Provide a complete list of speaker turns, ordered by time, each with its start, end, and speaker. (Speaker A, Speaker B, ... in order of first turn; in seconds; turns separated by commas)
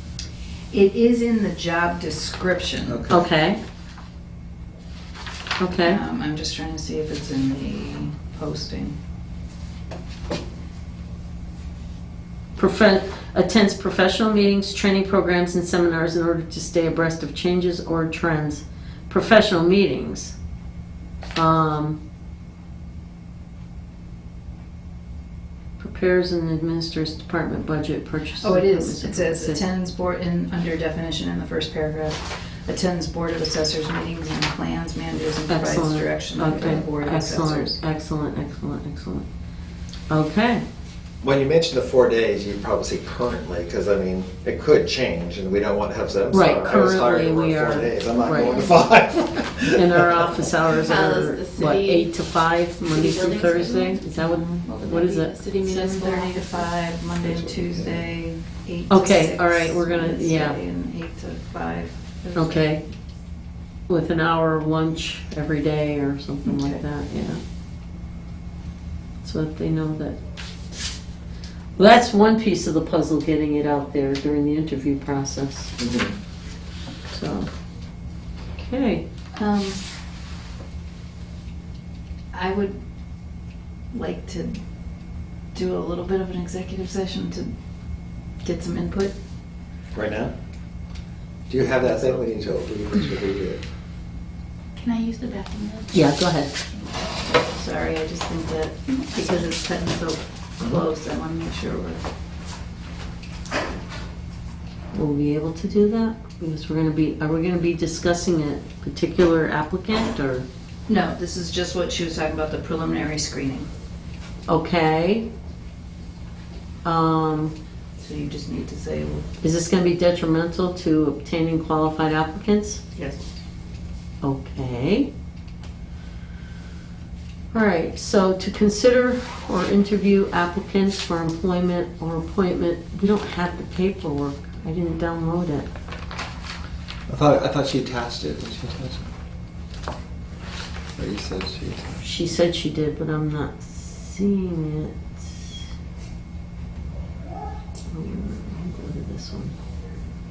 Speaker A: 0.7-3.0, Speaker B: 2.9-3.3, Speaker C: 3.1-3.6, Speaker C: 5.6-6.0, Speaker A: 5.8-9.0, Speaker C: 12.6-20.4, Speaker C: 21.4-22.0, Speaker C: 25.8-29.6, Speaker A: 28.4-37.8, Speaker C: 35.5-39.3, Speaker C: 40.1-40.6, Speaker B: 41.2-50.5, Speaker C: 46.3-48.6, Speaker C: 49.7-55.3, Speaker D: 50.7-52.1, Speaker D: 52.8-56.7, Speaker A: 54.3-55.1, Speaker A: 55.6-62.8, Speaker B: 57.2-58.0, Speaker C: 58.9-60.6, Speaker C: 62.4-62.8, Speaker C: 63.9-67.4, Speaker A: 66.5-66.8, Speaker C: 69.2-70.2, Speaker C: 71.8-75.8, Speaker B: 75.8-76.2, Speaker C: 77.1-77.5, Speaker C: 78.6-79.0, Speaker A: 79.4-79.8, Speaker A: 82.3-82.8, Speaker A: 83.9-84.6, Speaker A: 85.5-87.5, Speaker A: 88.4-89.2, Speaker B: 89.9-90.3, Speaker B: 91.5-93.6, Speaker D: 94.8-96.2, Speaker C: 95.9-96.5, Speaker A: 97.3-102.0, Speaker D: 99.1-99.5, Speaker C: 104.9-110.5, Speaker A: 110.9-113.7, Speaker C: 114.5-115.3, Speaker C: 116.8-117.5, Speaker A: 118.0-119.3, Speaker C: 119.4-122.8, Speaker A: 123.0-123.2, Speaker C: 124.2-125.1, Speaker C: 127.5-135.7, Speaker B: 137.1-139.1, Speaker B: 141.0-142.0, Speaker C: 142.0-145.5, Speaker C: 147.9-149.6